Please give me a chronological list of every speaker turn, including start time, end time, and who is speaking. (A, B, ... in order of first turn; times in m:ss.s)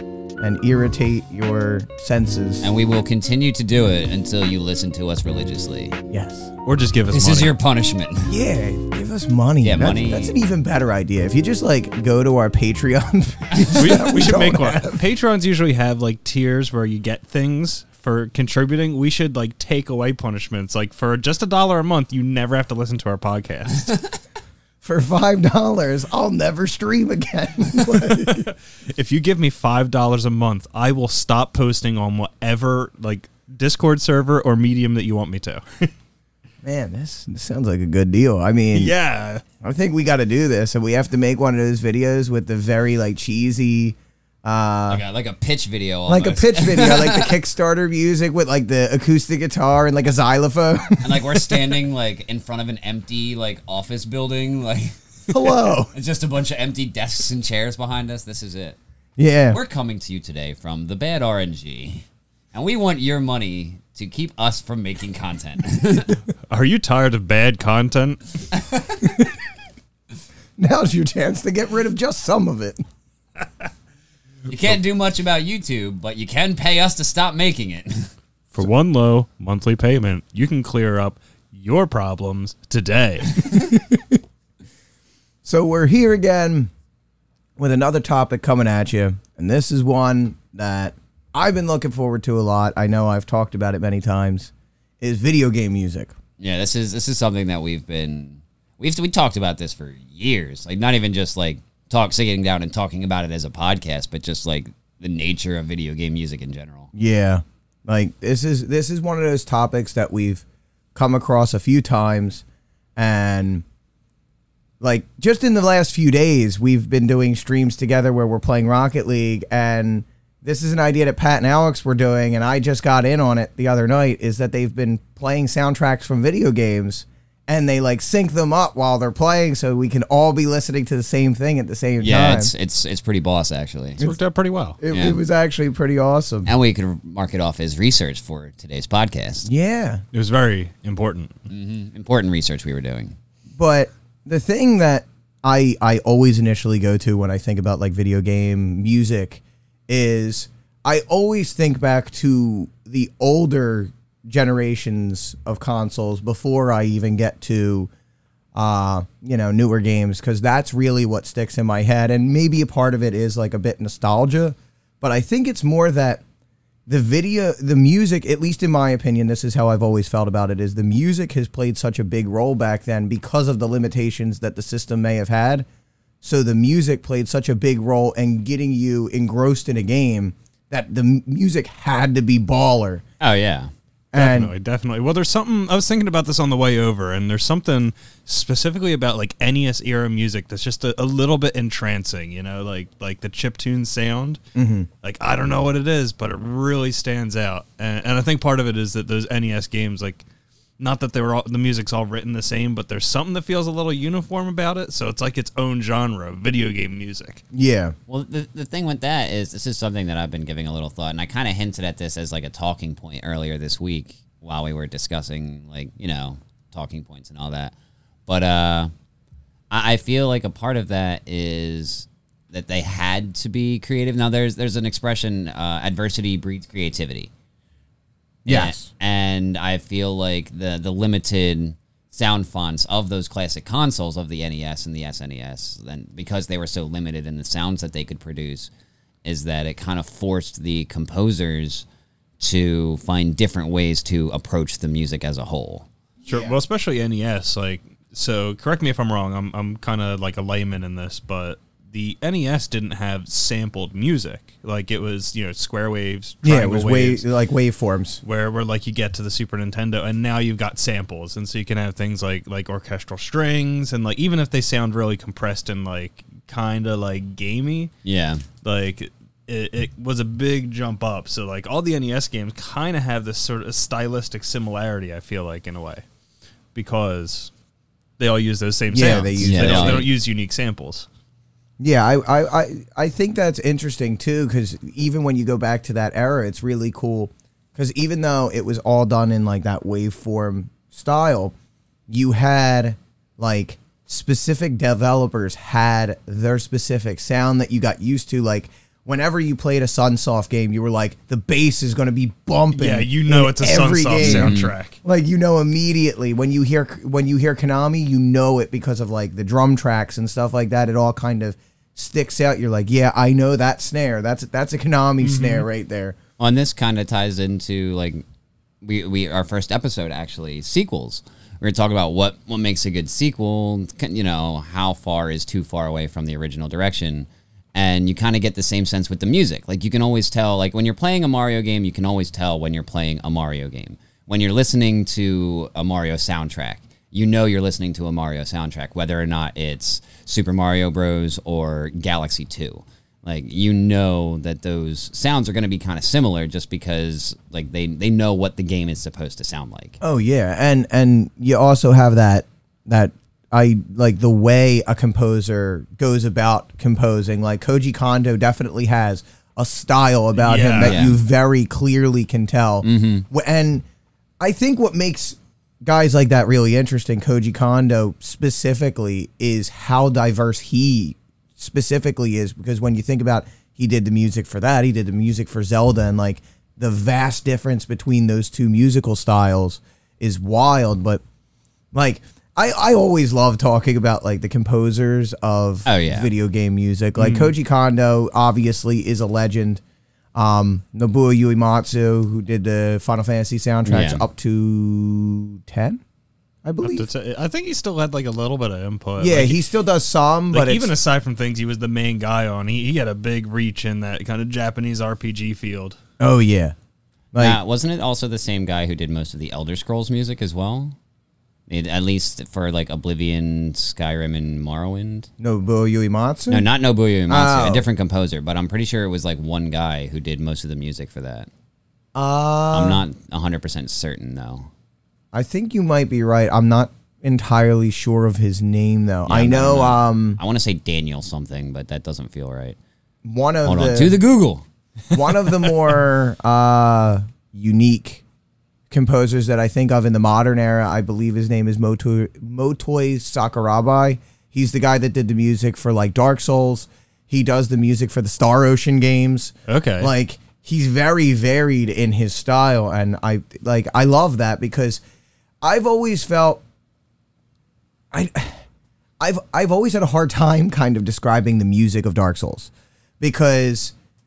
0:00.4-0:02.6 A
0:02.6-0:06.0 B
0:06.1-0:06.5 A
0:06.6-0:07.5 C
0:07.1-0:08.3 B
0:08.3-0:15.0 A
0:09.6-0:10.3 B
0:13.7-0:23.9 C
0:24.8-0:28.5 A
0:28.0-0:35.9 C
0:36.6-0:38.9 A
0:38.7-0:39.4 C
0:39.6-0:45.0 A
0:44.9-0:47.4 B
0:46.1-0:51.7 A
0:51.0-0:58.8 B
0:55.3-0:55.9 A
0:59.2-0:59.6 A
0:59.5-1:06.2 B
1:06.5-1:08.2 C
1:08.5-1:09.1 B
1:09.0-1:09.3 A
1:10.6-1:12.8 A
1:14.5-1:18.1 B
1:18.5-1:23.6 C
1:23.5-1:24.1 A
1:25.4-1:26.7 A
1:27.6-1:36.1 A
1:36.4-1:46.9 B
1:46.9-1:50.4 A
1:50.9-1:52.4 A
1:53.0-1:53.6 A
1:54.8-2:12.5 A
2:12.0-2:14.0 B
2:14.0-2:14.8 C
2:14.8-2:16.5 A
2:14.9-2:15.2 B
2:16.4-2:19.5 B
2:19.4-2:20.0 A
2:20.1-2:21.4 C
2:21.5-2:23.2 B
2:23.6-2:37.9 A
2:38.5-2:46.2 A
2:46.9-2:55.6 A
2:56.2-3:03.0 A
3:03.2-3:03.7 B
3:04.1-3:04.5 A
3:04.1-3:14.4 C
3:14.5-3:14.9 A
3:15.0-3:20.2 C
3:20.8-3:27.4 C
3:27.5-3:28.0 A
3:28.1-3:37.7 B
3:38.3-3:38.9 B
3:39.7-3:47.3 B
3:48.4-3:48.9 A
3:48.5-3:58.7 B
3:59.2-4:01.8 B
4:02.4-4:05.9 B
4:06.2-4:17.2 C
4:06.3-4:06.6 A
4:16.4-4:18.2 A
4:18.2-4:27.9 C
4:28.0-4:28.4 B
4:28.6-4:36.0 C
4:36.7-4:37.5 C
4:38.2-4:41.1 C
4:38.9-4:40.1 A
4:39.4-4:40.1 B
4:41.8-4:51.5 A
4:52.1-5:16.2 A
5:02.7-5:05.0 C
5:04.2-5:04.7 B
5:15.2-5:15.7 C
5:16.4-5:18.2 B
5:18.8-5:50.0 B
5:50.0-6:03.8 A
6:00.4-6:01.0 C
6:00.8-6:01.2 B
6:02.8-6:03.3 B
6:04.4-6:21.2 A
6:21.9-6:29.8 A
6:25.8-6:26.3 B
6:27.2-6:27.5 C
6:30.3-6:36.0 A
6:33.8-6:34.2 B
6:36.6-6:37.1 A
6:36.8-6:39.6 C
6:39.2-6:40.9 A
6:40.5-6:46.0 C
6:46.2-6:46.7 A
6:47.3-6:47.6 A
6:47.4-6:50.9 B
6:51.7-6:55.3 B
6:55.4-6:56.6 A
6:56.5-7:01.5 B
6:57.3-6:57.8 A
7:02.1-7:03.0 A
7:02.7-7:04.7 B
7:05.3-7:10.4 A
7:09.3-7:12.8 B
7:13.2-7:14.2 A
7:13.6-7:14.6 B
7:15.1-7:18.2 A
7:18.9-7:35.0 A
7:29.7-7:30.1 C
7:35.6-7:36.6 A
7:38.1-7:38.6 A
7:39.2-7:43.9 A